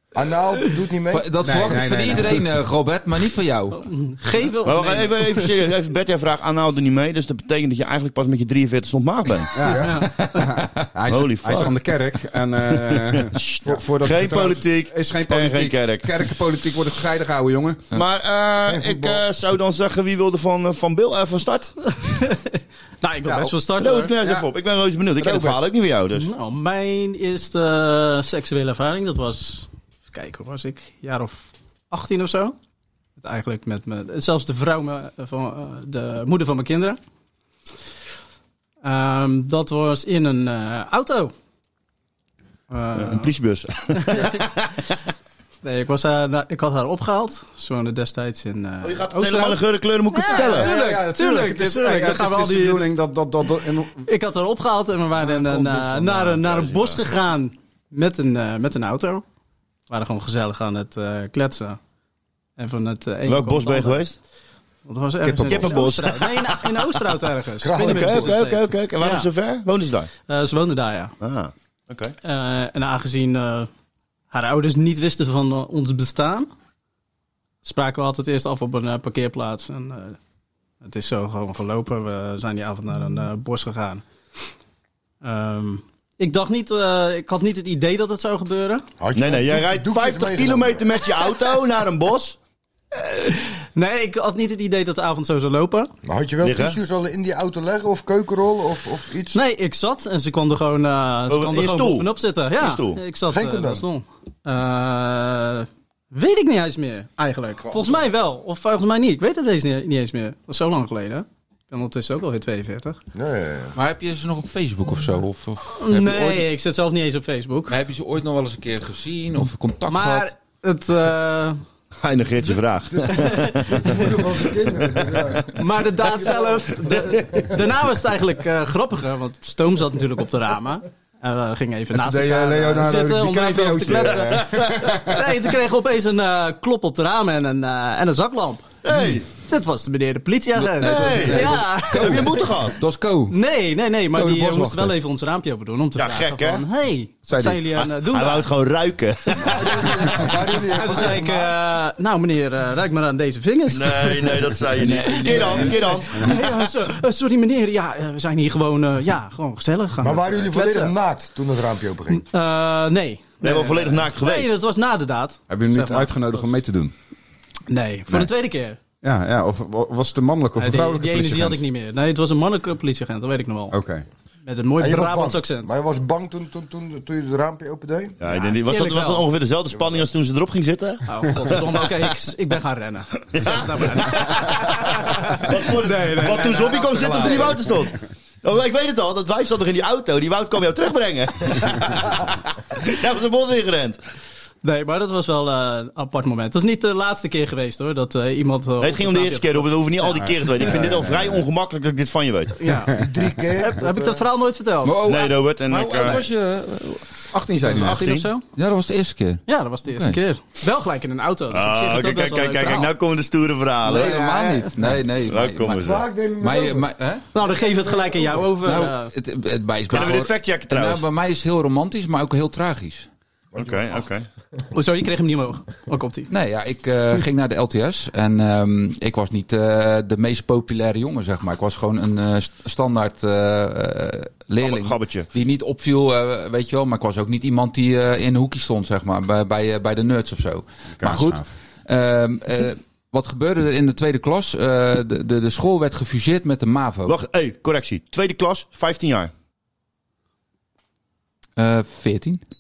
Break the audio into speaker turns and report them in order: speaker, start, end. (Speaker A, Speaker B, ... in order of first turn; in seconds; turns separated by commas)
Speaker A: 0.1-1.8, Speaker B: 1.1-3.9, Speaker C: 1.4-2.5, Speaker D: 3.8-5.5, Speaker E: 4.6-9.9, Speaker C: 9.5-17.9, Speaker A: 9.7-10.1, Speaker D: 9.9-10.2, Speaker E: 11.1-11.8, Speaker E: 12.6-16.1, Speaker E: 17.9-21.8, Speaker A: 18.7-19.2, Speaker D: 22.1-22.5, Speaker D: 23.0-24.1, Speaker C: 23.2-23.6, Speaker E: 23.8-26.3, Speaker C: 25.2-25.6, Speaker D: 26.2-32.6, Speaker D: 33.2-37.0, Speaker D: 38.8-41.3, Speaker D: 42.7-43.3, Speaker E: 42.9-45.0, Speaker D: 44.0-44.4, Speaker D: 45.6-49.6, Speaker E: 48.8-50.7, Speaker D: 50.1-52.9, Speaker C: 50.3-54.1, Speaker D: 54.1-59.2, Speaker E: 55.2-57.0, Speaker D: 59.9-61.8, Speaker D: 62.6-64.0, Speaker E: 63.3-64.2, Speaker D: 64.8-69.3, Speaker C: 65.2-65.9, Speaker E: 65.4-66.9, Speaker A: 67.6-68.4, Speaker E: 67.8-70.1, Speaker D: 70.3-71.2, Speaker E: 71.2-72.1, Speaker D: 72.2-73.7, Speaker D: 74.3-76.5, Speaker D: 77.6-80.2, Speaker D: 80.8-84.0, Speaker D: 85.2-88.9, Speaker A: 89.0-91.0, Speaker E: 89.1-92.4, Speaker D: 92.9-95.9, Speaker A: 96.0-99.4, Speaker E: 96.4-96.8, Speaker D: 99.3-113.0, Speaker E: 101.3-103.0, Speaker A: 103.3-103.9, Speaker A: 107.7-108.1, Speaker A: 113.1-113.8, Speaker B: 113.8-116.5, Speaker D: 115.8-117.8, Speaker B: 117.7-120.3, Speaker D: 119.9-121.6, Speaker E: 122.0-124.1, Speaker A: 122.9-127.5, Speaker D: 123.2-123.9, Speaker D: 125.5-138.7, Speaker C: 131.9-135.5, Speaker E: 134.4-134.9, Speaker E: 138.8-139.3, Speaker D: 139.4-142.5, Speaker B: 140.6-143.4, Speaker E: 140.8-142.8, Speaker D: 143.3-148.5, Speaker B: 144.1-144.9, Speaker E: 146.0-146.6, Speaker C: 147.3-147.6, Speaker E: 147.8-150.3, Speaker A: 149.6-151.5, Speaker D: 150.7-160.9, Speaker E: 153.7-156.5, Speaker C: 155.0-156.4, Speaker A: 160.0-162.2, Speaker D: 162.1-166.1, Speaker E: 163.4-164.6, Speaker C: 165.5-166.9, Speaker D: 167.7-168.8, Speaker C: 169.0-171.6, Speaker D: 170.6-173.8, Speaker C: 173.7-174.1, Speaker D: 174.4-175.7, Speaker A: 174.8-178.2, Speaker E: 178.2-181.9, Speaker D: 178.3-179.2, Speaker D: 181.1-187.5, Speaker E: 183.4-194.0, Speaker C: 185.8-187.6, Speaker D: 194.6-200.9, Speaker E: 198.8-202.6, Speaker C: 200.2-201.4, Speaker D: 202.6-202.9, Speaker C: 202.7-203.3, Speaker A: 203.0-204.2, Speaker D: 203.6-205.1, Speaker B: 204.8-207.0, Speaker E: 205.0-206.2, Speaker C: 207.3-208.0, Speaker D: 207.7-208.4, Speaker E: 207.8-208.3, Speaker B: 208.6-210.2, Speaker D: 209.5-212.9, Speaker E: 211.5-214.2, Speaker B: 213.8-217.2, Speaker D: 214.1-214.7, Speaker E: 214.8-216.1, Speaker A: 215.8-216.9, Speaker D: 217.3-219.1, Speaker A: 217.7-218.4, Speaker B: 218.6-223.1, Speaker E: 219.9-221.0, Speaker A: 223.5-224.0, Speaker E: 223.6-224.3, Speaker D: 224.7-226.3, Speaker B: 226.3-247.2, Speaker E: 234.6-235.3, Speaker C: 241.0-241.5, Speaker E: 247.1-249.3, Speaker B: 251.6-252.4